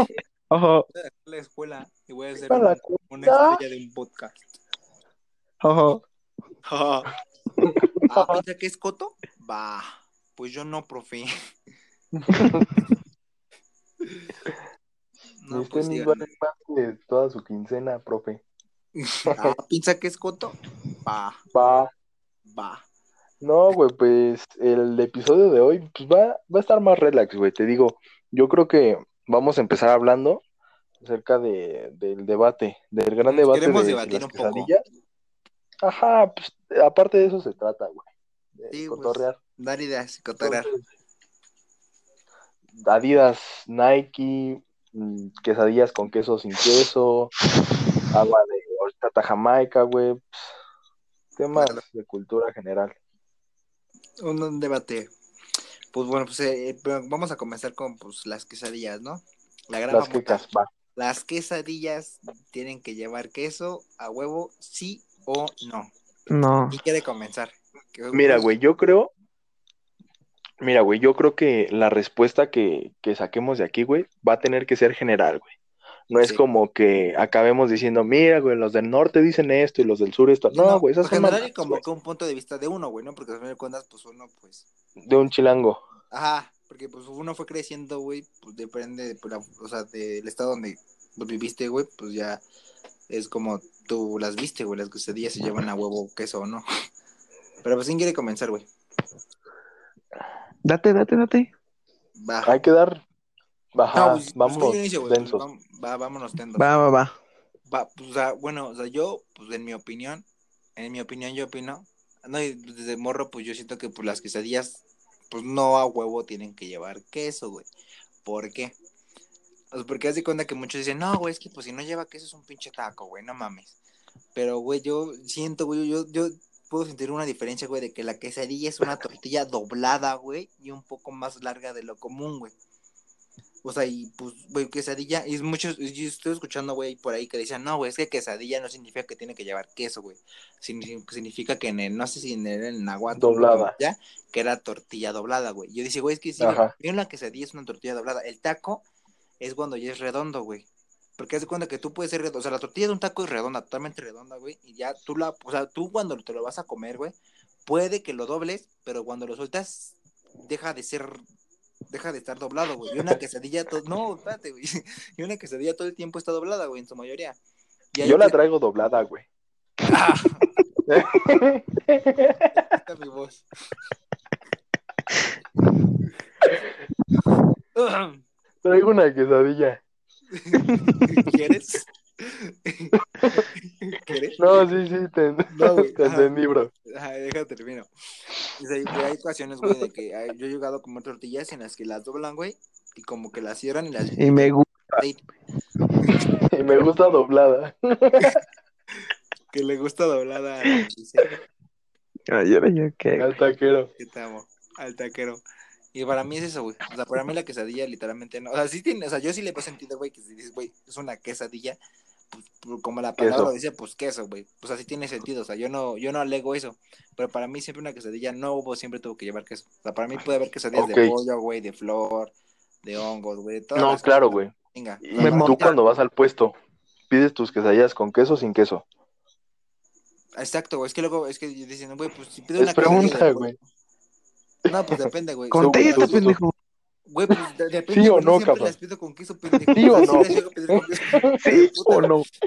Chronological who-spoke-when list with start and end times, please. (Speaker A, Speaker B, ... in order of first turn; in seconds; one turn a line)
Speaker A: 0.5-0.8
Speaker B: 0.9-4.5
Speaker C: 2.5-3.6
Speaker A: 5.6-6.0
Speaker B: 6.7-7.1
Speaker C: 7.6-8.4
Speaker B: 8.1-11.3
Speaker C: 12.2-12.8
Speaker B: 15.4-16.2
Speaker C: 15.5-18.4
Speaker B: 18.9-21.5
Speaker C: 19.2-19.5
Speaker C: 21.5-21.9
Speaker B: 22.5-22.8
Speaker C: 23.4-30.4
Speaker C: 31.0-34.8
Speaker B: 33.2-34.7
Speaker C: 35.8-39.4
Speaker B: 38.7-40.7
Speaker C: 40.4-40.8
Speaker C: 42.8-47.3
Speaker C: 48.1-50.5
Speaker C: 51.4-52.9
Speaker B: 51.5-51.8
Speaker B: 54.2-55.1
Speaker B: 55.9-60.4
Speaker C: 59.9-60.7
Speaker B: 61.0-65.9
Speaker A: 66.3-66.8
Speaker B: 66.7-68.5
Speaker C: 68.1-69.1
Speaker C: 70.6-75.5
Speaker C: 76.1-81.8
Speaker B: 80.5-84.7
Speaker C: 85.0-85.8
Speaker B: 86.1-92.4
Speaker B: 93.1-96.6
Speaker B: 97.6-98.7
Speaker A: 100.6-101.5
Speaker B: 102.2-102.5
Speaker C: 102.5-103.0
Speaker C: 103.7-105.4
Speaker B: 103.9-106.7
Speaker A: 106.6-107.1
Speaker B: 107.7-110.2
Speaker B: 110.8-117.7
Speaker B: 118.2-118.8
Speaker B: 119.7-123.8
Speaker B: 124.3-132.5
Speaker B: 133.6-148.8
Speaker C: 143.2-143.7
Speaker C: 146.4-146.7
Speaker B: 149.4-150.7
Speaker B: 151.2-161.2
Speaker B: 161.9-167.4
Speaker B: 167.9-168.4
Speaker C: 168.0-169.2
Speaker B: 169.8-170.5
Speaker A: 170.9-171.2
Speaker C: 171.0-172.6
Speaker B: 172.5-173.5
Speaker B: 177.7-178.2
Speaker C: 178.6-179.8
Speaker B: 180.3-184.7
Speaker C: 180.5-181.3
Speaker C: 183.1-183.4
Speaker C: 184.3-186.7
Speaker B: 185.5-186.3
Speaker B: 186.8-187.9
Speaker B: 188.6-195.2
Speaker A: 194.2-195.0
Speaker C: 196.5-198.4
Speaker B: 199.5-201.4
Speaker A: 202.3-203.3
Speaker C: 203.2-203.9
Speaker B: 204.0-205.4
Speaker B: 205.9-211.8
Speaker B: 212.3-222.3
Speaker C: 213.2-213.5
Speaker C: 220.7-221.1
Speaker B: 222.8-225.8
Speaker C: 223.7-226.5
Speaker A: 225.2-225.7
Speaker C: 227.1-228.8
Speaker B: 230.4-233.5
Speaker C: 232.6-233.6
Speaker B: 234.7-236.3
Speaker C: 234.7-235.0
Speaker A: 235.5-236.5
Speaker C: 235.6-236.4
Speaker B: 237.1-242.1
Speaker C: 237.9-238.7
Speaker C: 239.7-241.4
Speaker A: 241.4-242.3